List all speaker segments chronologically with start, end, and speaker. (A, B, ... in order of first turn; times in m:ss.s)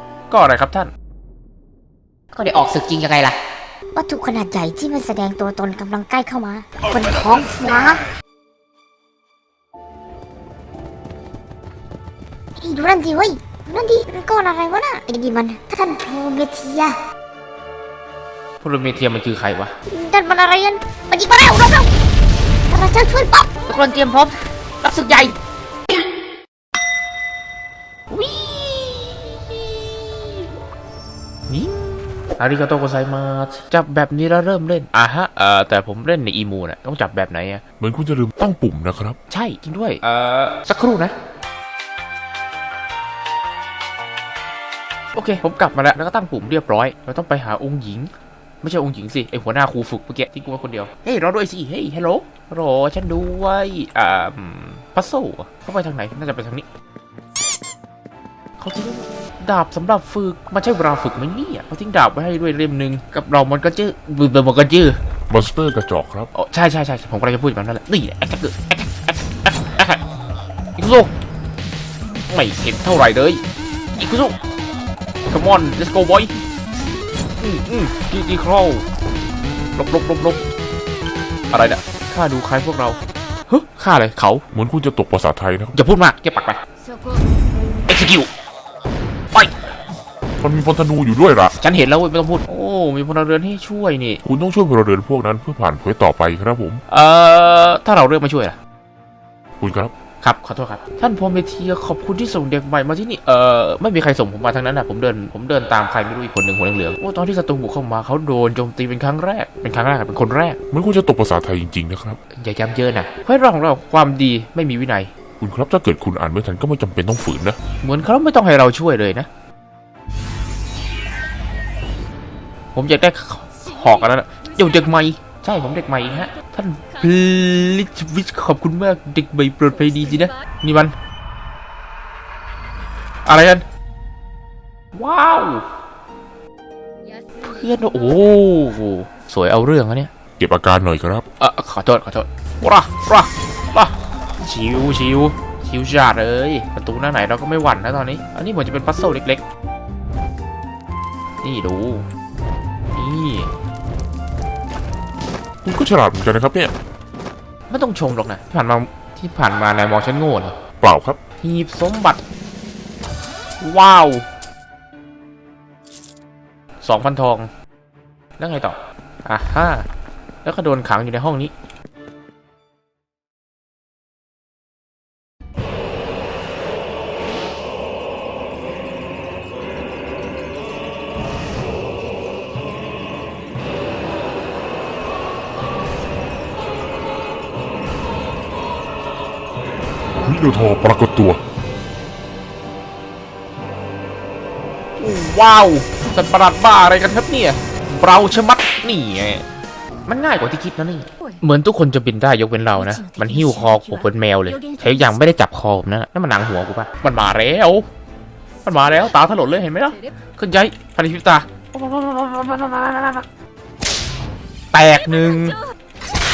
0:00.3-0:00.9 A
0:02.3-0:03.4 B
0:03.9-0:08.0 C
0:12.6-0:17.0 C
0:18.6-0:19.7 A
0:19.9-0:21.9 C
0:22.7-0:23.5 C
0:23.7-0:25.3 B
0:28.1-0:30.3 A
0:31.5-0:37.6 A
0:37.8-0:39.2 D
0:39.3-0:41.1 A
0:45.1-0:56.6 A
0:58.6-1:05.0 A
1:05.3-1:06.3 D
1:06.3-1:10.0 A
1:10.8-1:11.1 A
1:12.3-1:13.4 A
1:14.0-1:14.4 A
1:15.3-1:16.3 A
1:17.4-1:18.8 A
1:19.8-1:20.5 A
1:21.5-1:24.4 A
1:24.5-1:25.8 D
1:25.7-1:26.6 A
1:27.9-1:28.3 A
1:29.3-1:29.6 A
1:30.4-1:31.5 D
1:31.6-1:34.2 A
1:34.2-1:36.8 D
1:36.9-1:38.6 A
1:39.6-1:39.9 D
1:40.2-1:50.6 A
1:50.7-1:52.2 D
1:52.4-1:55.1 A
1:55.4-1:57.6 D
1:57.8-1:59.3 A
2:02.7-2:10.9 A
2:13.2-2:13.6 A
2:14.9-2:15.7 A
2:17.4-2:20.1 A
2:20.4-2:21.2 D
2:21.4-2:29.4 A
2:31.4-2:32.0 A
2:32.9-2:33.5 A
2:35.6-2:36.7 D
2:37.7-2:40.6 A
2:40.8-2:41.2 D
2:41.4-2:42.2 A
2:43.6-2:44.3 A
2:46.8-2:47.5 A
2:48.4-2:49.9 A
2:50.4-2:51.5 A
3:10.2-3:11.4 D
3:15.0-3:19.4 A
3:20.1-3:27.8 A
3:28.6-3:33.2 A
3:34.7-3:35.6 A